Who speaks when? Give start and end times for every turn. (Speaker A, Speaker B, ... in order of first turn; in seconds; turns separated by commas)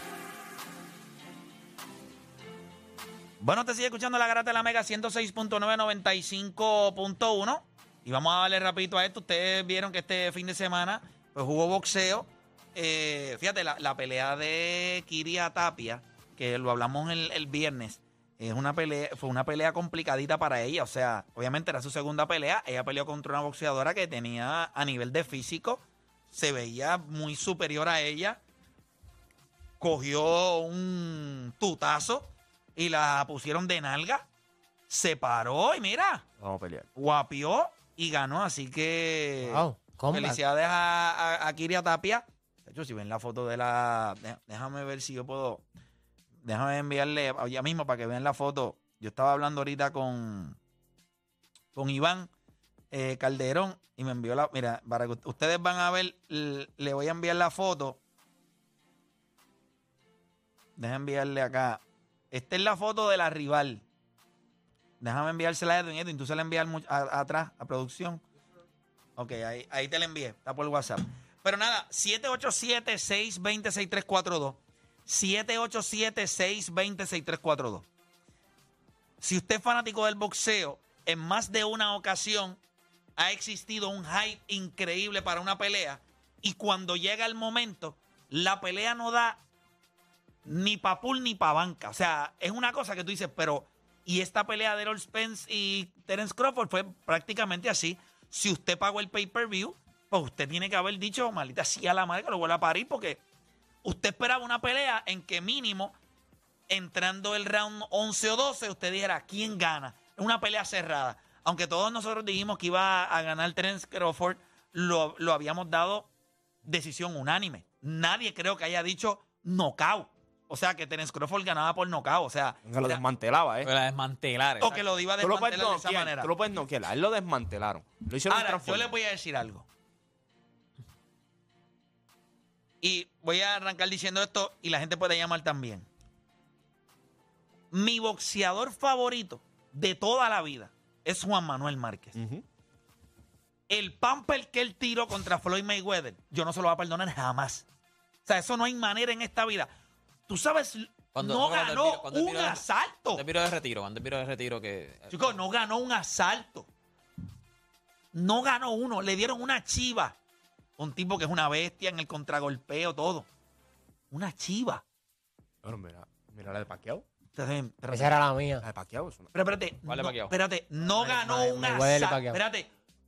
Speaker A: 3.4-28.4, Speaker A: 29.8-34.3, Speaker A: 34.9-36.2, Speaker B: 36.4-36.9, Speaker A: 37.0-45.6, Speaker C: 39.4-40.4, Speaker A: 46.4-50.6, Speaker A: 51.7-52.3, Speaker A: 52.9-58.0, Speaker A: 60.8-61.8, Speaker A: 62.3-63.8, Speaker A: 65.0-68.2, Speaker A: 69.2-77.9, Speaker A: 79.2-82.6, Speaker A: 83.2-89.4, Speaker A: 90.5-103.2, Speaker A: 103.8-106.0, Speaker A: 106.7-116.1, Speaker A: 116.6-123.0, Speaker B: 122.7-123.7, Speaker D: 123.7-124.8, Speaker A: 124.6-126.3, Speaker B: 125.2-128.9, Speaker A: 128.3-129.7, Speaker A: 132.8-135.9, Speaker A: 137.7-142.2, Speaker B: 142.2-142.4, Speaker A: 143.7-147.7, Speaker A: 148.3-149.7, Speaker A: 150.3-153.2, Speaker D: 151.2-152.6, Speaker D: 153.2-155.3, Speaker A: 155.1-156.7, Speaker A: 158.1-160.2, Speaker A: 160.8-163.3, Speaker A: 164.1-164.8, Speaker B: 165.6-167.1, Speaker A: 167.3-168.2, Speaker C: 167.9-168.7, Speaker B: 168.6-169.3, Speaker A: 169.3-172.7, Speaker D: 169.9-170.3, Speaker C: 171.1-172.4